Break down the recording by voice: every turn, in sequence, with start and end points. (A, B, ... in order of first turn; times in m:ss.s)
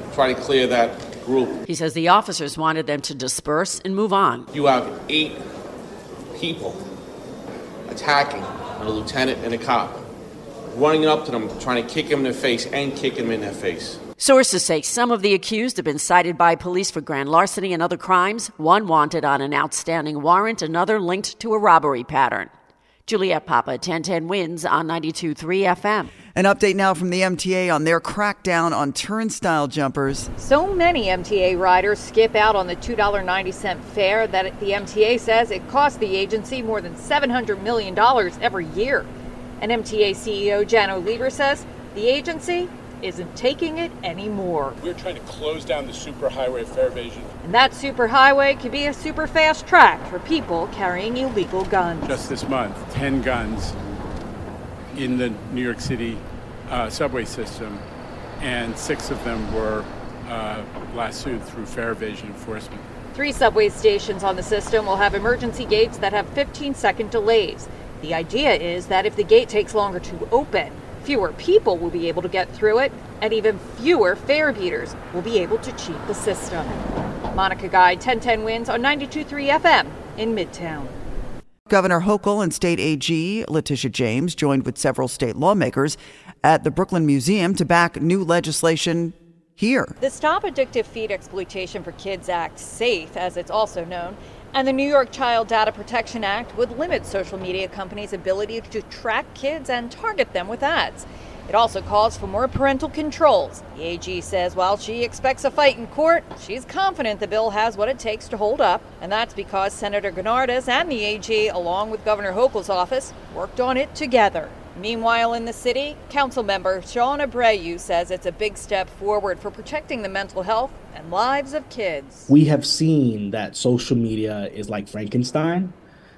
0:01.7-0:04.5 A
0:04.7-0:05.3 B
0:06.4-0:06.7 B
0:08.0-0:09.6 B
0:11.1-0:11.6 B
0:12.8-0:13.6 B
0:14.2-0:22.5 A
0:23.1-0:26.1 A
0:26.4-0:30.3 C
0:30.4-0:44.8 D
0:44.8-0:47.3 E
0:47.4-0:52.1 D
0:52.1-0:53.7 E
0:55.0-0:57.8 E
0:58.4-1:02.8 E
1:03.1-1:16.8 D
1:17.3-1:21.0 D
1:21.7-1:30.0 C
1:30.0-2:02.3 D
2:02.3-2:05.8 F